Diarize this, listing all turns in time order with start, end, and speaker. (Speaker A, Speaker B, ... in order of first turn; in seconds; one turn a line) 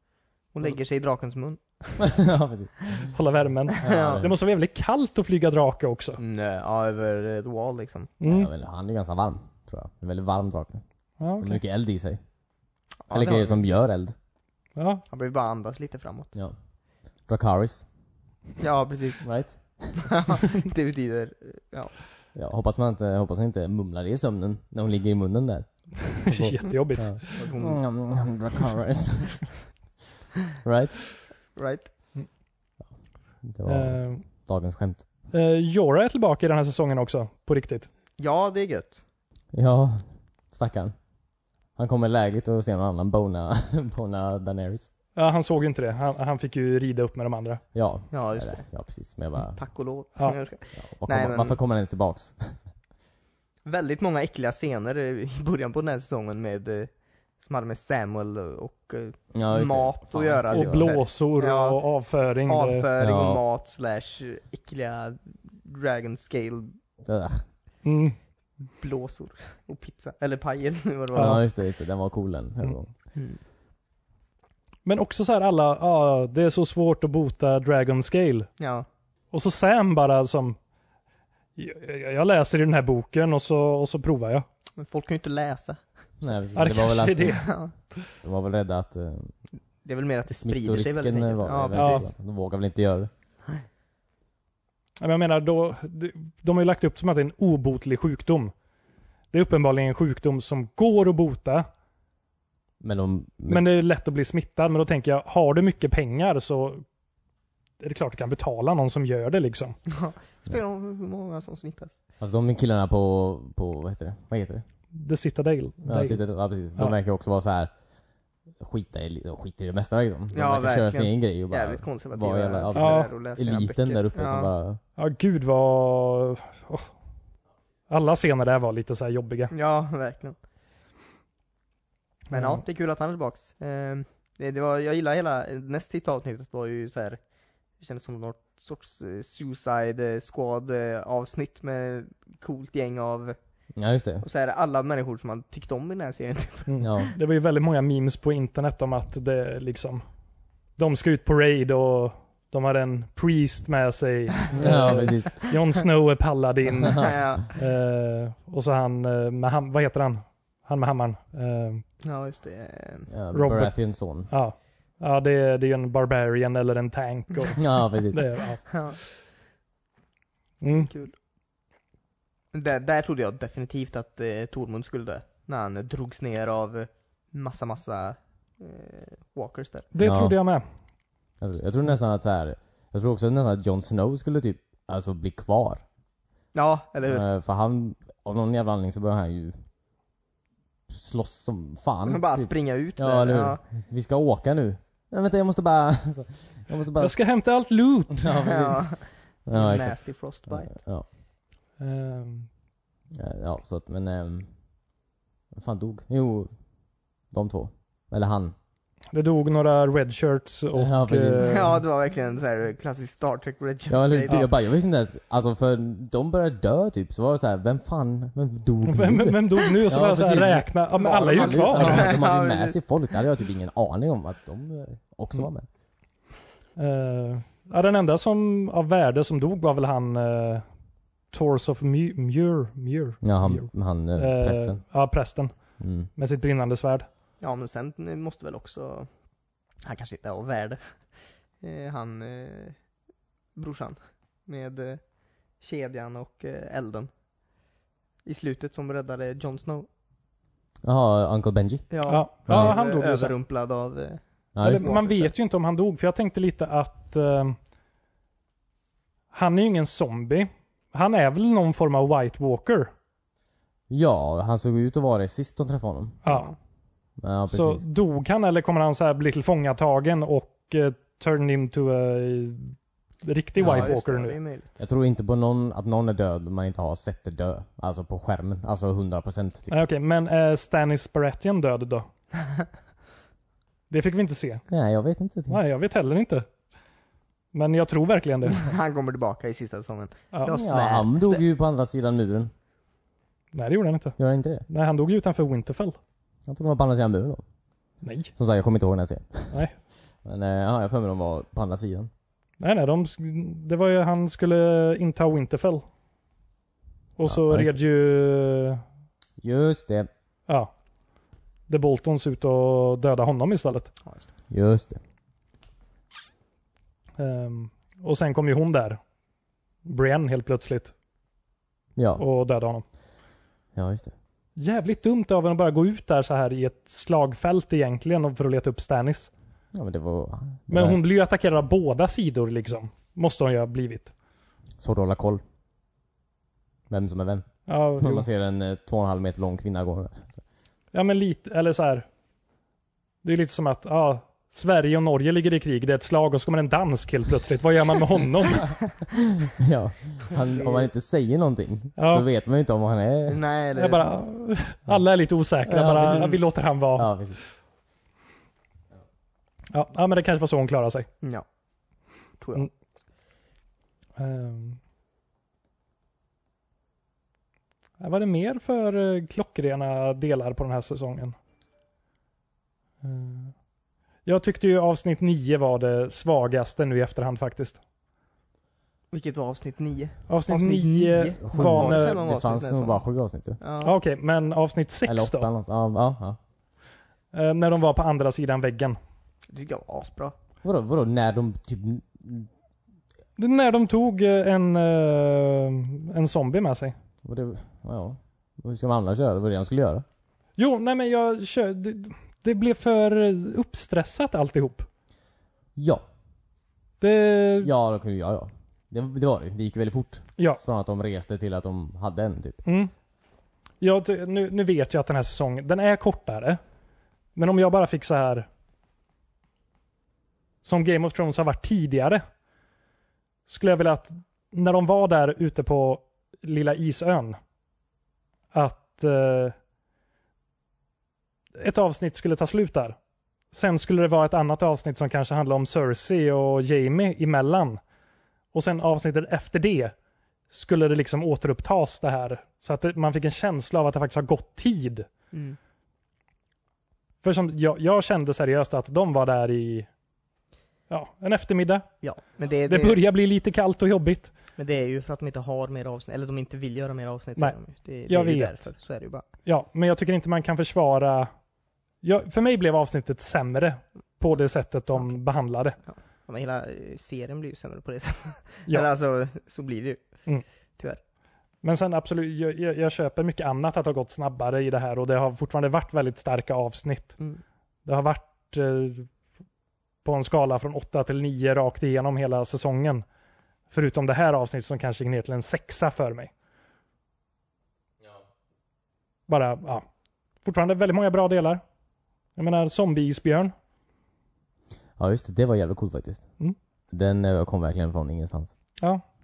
Speaker A: 0.5-2.2
Speaker B: 2.0-3.1
Speaker C: 3.1-6.2
Speaker A: 3.8-4.3
Speaker B: 3.8-4.3
Speaker A: 6.2-8.1
Speaker C: 8.2-8.5
Speaker B: 8.2-10.8
Speaker C: 11.2-11.6
Speaker B: 11.4-12.2
Speaker A: 13.1-13.6
Speaker B: 13.1-14.2
Speaker C: 14.8-15.0
Speaker A: 15.1-16.3
Speaker B: 17.3-17.9
Speaker A: 18.6-19.3
Speaker B: 19.2-20.1
Speaker A: 20.0-21.9
Speaker B: 22.4-29.5
Speaker C: 26.1-27.5
Speaker A: 27.4-27.8
Speaker B: 30.6-31.0
Speaker A: 31.6-31.9
Speaker B: 33.5-35.1
Speaker C: 33.7-34.2
Speaker C: 35.3-37.9
Speaker A: 38.2-39.0
Speaker B: 39.5-40.9
Speaker B: 41.8-44.9
Speaker C: 45.2-47.6
Speaker B: 47.7-49.6
Speaker A: 48.1-48.7
Speaker A: 49.5-51.6
Speaker B: 50.8-52.7
Speaker A: 53.6-56.9
Speaker A: 57.4-61.8
Speaker B: 59.3-60.9
Speaker C: 60.5-62.9
Speaker A: 62.5-66.8
Speaker B: 63.0-63.4
Speaker B: 67.0-67.4
Speaker C: 67.8-68.2
Speaker A: 68.8-71.4
Speaker B: 71.2-72.9
Speaker A: 73.2-73.4
Speaker C: 74.8-78.5
Speaker A: 78.6-78.9
Speaker C: 79.3-80.6
Speaker C: 81.6-84.5
Speaker A: 84.8-85.8
Speaker B: 86.2-87.5
Speaker C: 86.6-87.5
Speaker A: 87.3-87.7
Speaker B: 88.2-89.3
Speaker A: 89.8-92.1
Speaker B: 90.4-93.1
Speaker C: 91.8-92.1
Speaker C: 95.0-98.5
Speaker C: 99.3-101.7
Speaker B: 102.8-103.7
Speaker C: 103.5-106.8
Speaker C: 107.8-109.8
Speaker A: 109.9-112.0
Speaker B: 112.2-114.6
Speaker C: 114.9-116.2
Speaker B: 115.8-117.7
Speaker B: 118.6-124.8
Speaker A: 120.3-124.5
Speaker C: 122.8-123.1
Speaker C: 125.0-126.9
Speaker C: 127.9-129.5
Speaker A: 129.5-130.4
Speaker C: 132.3-132.6
Speaker A: 132.3-137.2
Speaker A: 137.8-143.4
Speaker B: 143.8-144.2
Speaker A: 144.2-147.0
Speaker C: 146.7-150.0
Speaker B: 146.8-147.1
Speaker C: 150.8-161.8
Speaker B: 154.6-155.4
Speaker B: 156.8-157.2
Speaker A: 157.0-157.5
Speaker A: 162.0-163.1
Speaker B: 163.1-164.3
Speaker C: 163.3-163.8
Speaker C: 164.3-168.7
Speaker B: 167.6-168.3
Speaker A: 168.7-169.0
Speaker C: 170.6-170.9
Speaker A: 170.7-171.2
Speaker A: 172.5-179.9
Speaker C: 179.9-180.6
Speaker B: 180.0-180.3
Speaker B: 181.4-185.8
Speaker A: 186.6-187.3
Speaker B: 187.1-189.6
Speaker B: 190.9-197.2
Speaker A: 192.1-193.6
Speaker C: 197.0-198.3
Speaker B: 198.1-198.9
Speaker A: 198.4-200.8
Speaker B: 199.5-200.0
Speaker B: 200.5-201.1
Speaker C: 201.8-202.5
Speaker B: 203.1-204.5
Speaker B: 205.6-206.5
Speaker B: 207.3-208.5
Speaker C: 209.1-211.8
Speaker B: 210.8-211.8
Speaker A: 211.4-214.5
Speaker B: 213.9-225.7
Speaker C: 218.8-222.2
Speaker A: 221.0-222.8
Speaker C: 226.8-230.7
Speaker C: 231.3-235.5
Speaker B: 233.2-234.8
Speaker B: 235.8-236.1
Speaker C: 236.2-237.1
Speaker A: 237.4-239.1
Speaker A: 239.8-240.8
Speaker A: 241.6-242.8
Speaker A: 243.6-245.0
Speaker A: 245.6-247.1
Speaker A: 248.2-249.9
Speaker B: 250.8-251.9
Speaker A: 251.9-255.3
Speaker C: 252.1-253.3
Speaker B: 252.5-252.8
Speaker B: 254.6-255.0
Speaker C: 254.6-257.6
Speaker C: 259.3-262.9
Speaker B: 263.9-266.2
Speaker C: 266.2-266.5
Speaker A: 266.3-266.5
Speaker B: 267.2-267.8
Speaker C: 267.5-274.4
Speaker B: 273.6-274.0
Speaker A: 273.6-274.8
Speaker B: 274.8-279.9
Speaker C: 279.7-282.1
Speaker C: 283.9-284.6
Speaker B: 284.7-285.6
Speaker C: 285.5-286.5
Speaker C: 287.5-288.7
Speaker A: 288.5-291.4
Speaker C: 290.3-290.6
Speaker B: 290.5-292.5
Speaker C: 293.5-294.2
Speaker B: 294.2-294.7
Speaker C: 294.7-296.0
Speaker B: 296.5-297.4
Speaker C: 298.0-298.3
Speaker B: 298.4-299.6
Speaker B: 300.2-302.1
Speaker C: 302.6-305.8
Speaker C: 307.2-308.8
Speaker B: 307.2-307.8
Speaker B: 309.4-310.1
Speaker C: 311.7-313.9
Speaker B: 314.5-315.0
Speaker C: 317.2-319.0
Speaker C: 319.9-320.9
Speaker B: 322.0-322.2
Speaker C: 322.2-322.8
Speaker B: 323.8-324.1
Speaker C: 324.6-329.3
Speaker B: 329.7-331.0
Speaker C: 330.7-334.1
Speaker B: 334.8-335.4
Speaker B: 336.9-337.5
Speaker C: 337.7-338.3
Speaker B: 338.0-340.4
Speaker C: 340.9-342.1
Speaker C: 343.2-348.8
Speaker B: 349.4-353.4
Speaker A: 350.5-350.9
Speaker C: 352.0-352.2
Speaker A: 353.3-354.1
Speaker C: 353.8-357.1
Speaker B: 355.6-356.4
Speaker B: 356.9-357.4
Speaker C: 359.7-361.1
Speaker A: 362.4-362.7
Speaker C: 364.2-364.8
Speaker C: 368.0-371.4
Speaker C: 373.0-373.5
Speaker C: 374.2-377.8
Speaker A: 379.1-383.0
Speaker C: 380.3-382.2
Speaker B: 381.4-383.6
Speaker A: 383.6-384.0
Speaker C: 383.8-385.5
Speaker B: 385.1-386.4
Speaker C: 387.3-389.0
Speaker A: 389.5-390.4
Speaker B: 390.6-392.5
Speaker C: 393.4-396.9
Speaker B: 397.2-400.1
Speaker C: 400.6-404.9
Speaker B: 405.8-406.0
Speaker C: 407.0-407.7
Speaker B: 407.6-412.6
Speaker C: 412.6-412.9
Speaker C: 413.8-416.6
Speaker C: 417.4-418.5
Speaker C: 420.6-422.2
Speaker C: 423.5-427.4
Speaker C: 428.5-429.6
Speaker C: 431.6-433.0
Speaker C: 433.5-437.8
Speaker C: 438.5-439.9
Speaker C: 440.5-445.1
Speaker A: 445.3-445.6
Speaker C: 447.2-449.9
Speaker C: 450.9-451.9
Speaker A: 452.0-453.0
Speaker C: 452.7-454.3
Speaker A: 454.6-459.2
Speaker C: 458.1-458.7
Speaker C: 459.4-461.3
Speaker C: 462.0-465.8
Speaker A: 466.3-470.0
Speaker C: 471.6-477.2
Speaker C: 477.9-479.1
Speaker C: 480.0-483.1
Speaker C: 483.7-486.3
Speaker C: 489.3-489.8
Speaker C: 490.4-491.6
Speaker C: 492.4-493.5
Speaker B: 495.0-496.2
Speaker B: 496.9-498.5